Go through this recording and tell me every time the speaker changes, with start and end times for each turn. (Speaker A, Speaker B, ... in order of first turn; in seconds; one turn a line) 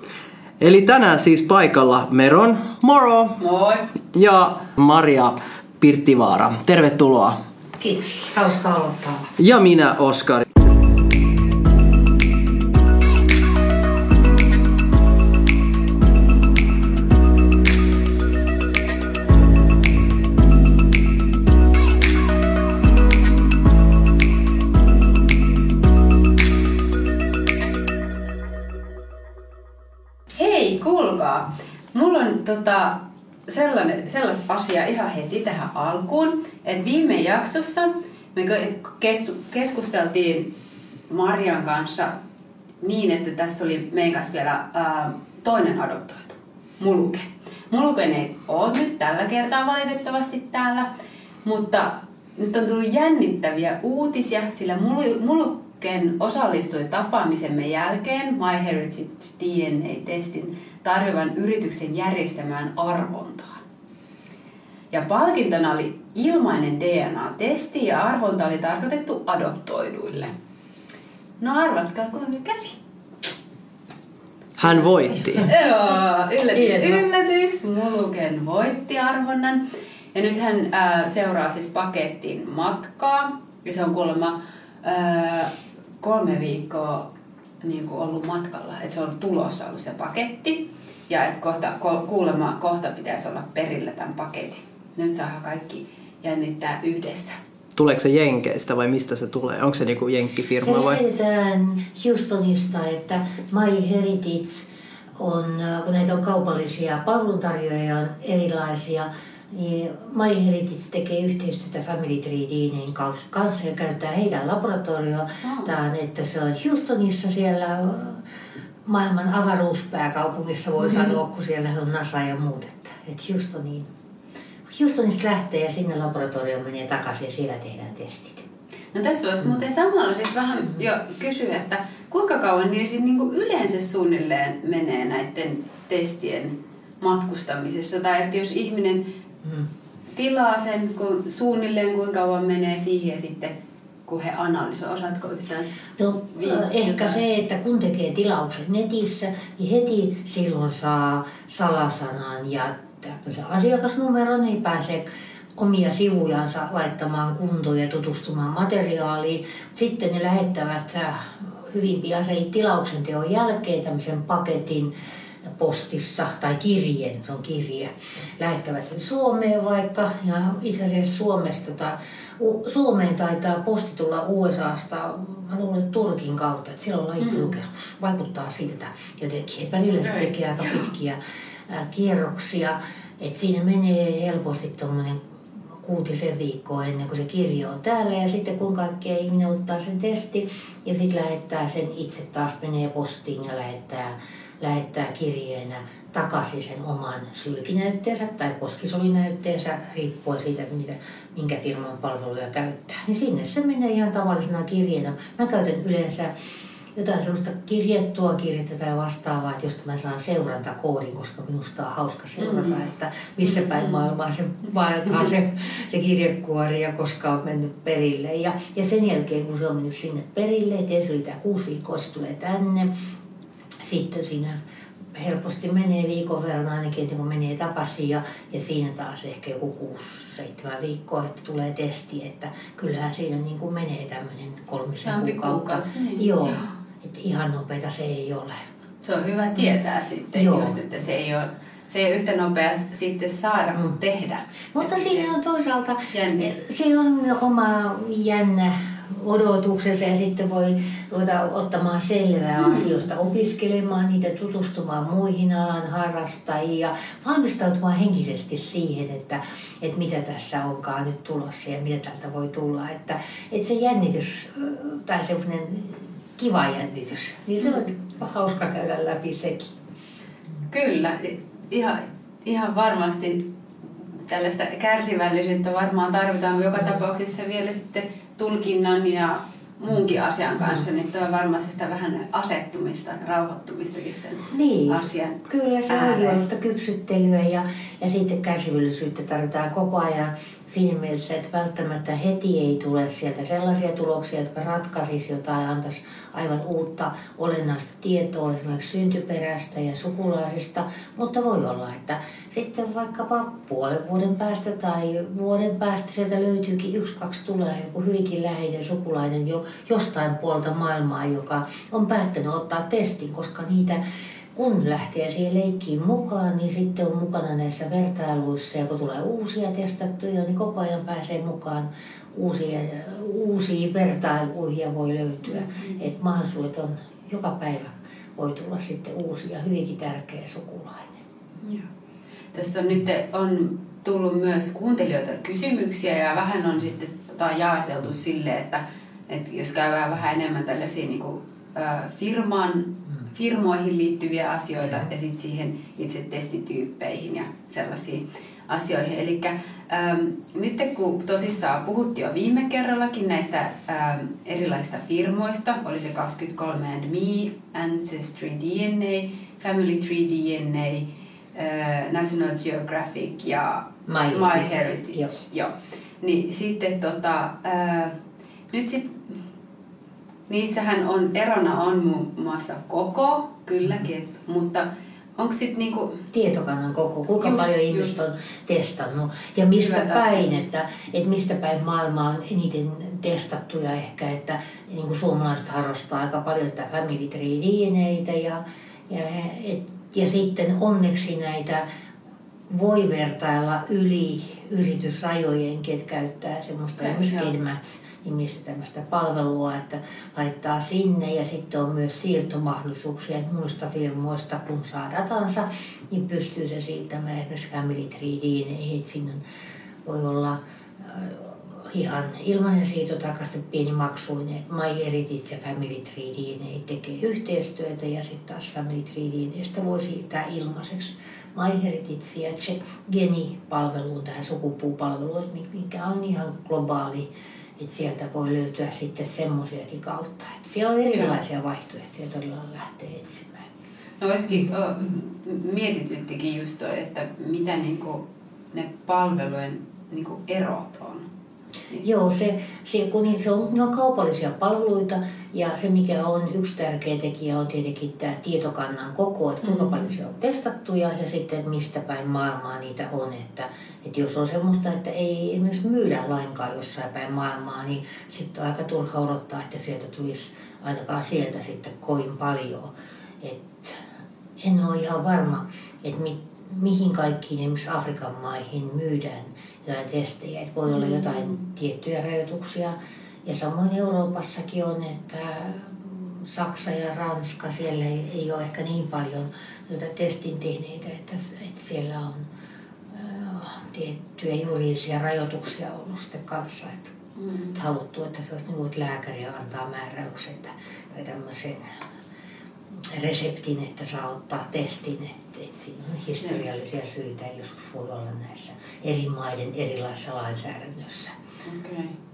Speaker A: 0.6-3.4
Speaker B: 3.4-3.9
Speaker A: 4.1-7.4
Speaker C: 7.8-9.3
Speaker A: 9.4-10.4
Speaker B: 30.4-40.5
Speaker B: 41.1-42.2
Speaker B: 42.8-50.9
Speaker B: 51.4-63.6
Speaker B: 64.9-70.3
Speaker B: 71.4-72.8
Speaker A: 74.6-75.5
Speaker B: 75.5-79.6
Speaker A: 76.6-76.9
Speaker B: 80.1-87.1
Speaker B: 87.6-97.4
Speaker A: 97.8-101.0
Speaker C: 100.6-118.2
Speaker B: 115.4-115.7
Speaker C: 118.8-123.9
Speaker C: 124.7-128.5
Speaker B: 128.9-139.1
Speaker B: 140.2-143.5
Speaker B: 144.1-147.2
Speaker C: 146.0-164.9
Speaker C: 165.5-185.2
Speaker B: 177.2-177.5
Speaker B: 179.9-180.9
Speaker C: 185.8-206.3
Speaker C: 206.9-222.9
Speaker B: 212.4-212.8
Speaker B: 213.5-214.0
Speaker C: 223.8-224.6
Speaker C: 225.1-238.7
Speaker B: 235.0-236.7
Speaker B: 239.0-245.3
Speaker C: 240.3-240.8
Speaker C: 244.7-269.7
Speaker B: 246.1-246.5
Speaker B: 252.6-252.9
Speaker B: 270.7-273.5
Speaker B: 274.3-286.4
Speaker C: 284.5-314.0
Speaker C: 314.6-331.2
Speaker B: 325.5-326.0
Speaker B: 331.6-331.9
Speaker B: 332.5-368.2
Speaker C: 364.1-365.3
Speaker B: 368.7-369.4
Speaker B: 370.5-376.2
Speaker C: 376.3-391.9
Speaker B: 377.4-378.1
Speaker B: 379.8-380.6
Speaker C: 392.7-409.4
Speaker B: 397.0-397.5
Speaker C: 410.1-433.7
Speaker B: 434.2-441.3
Speaker C: 442.0-464.0
Speaker B: 449.6-449.9
Speaker C: 464.6-482.5
Speaker B: 470.9-471.6
Speaker C: 483.1-487.1
Speaker B: 487.4-487.8
Speaker C: 487.7-491.9
Speaker C: 493.1-501.3
Speaker B: 501.6-502.2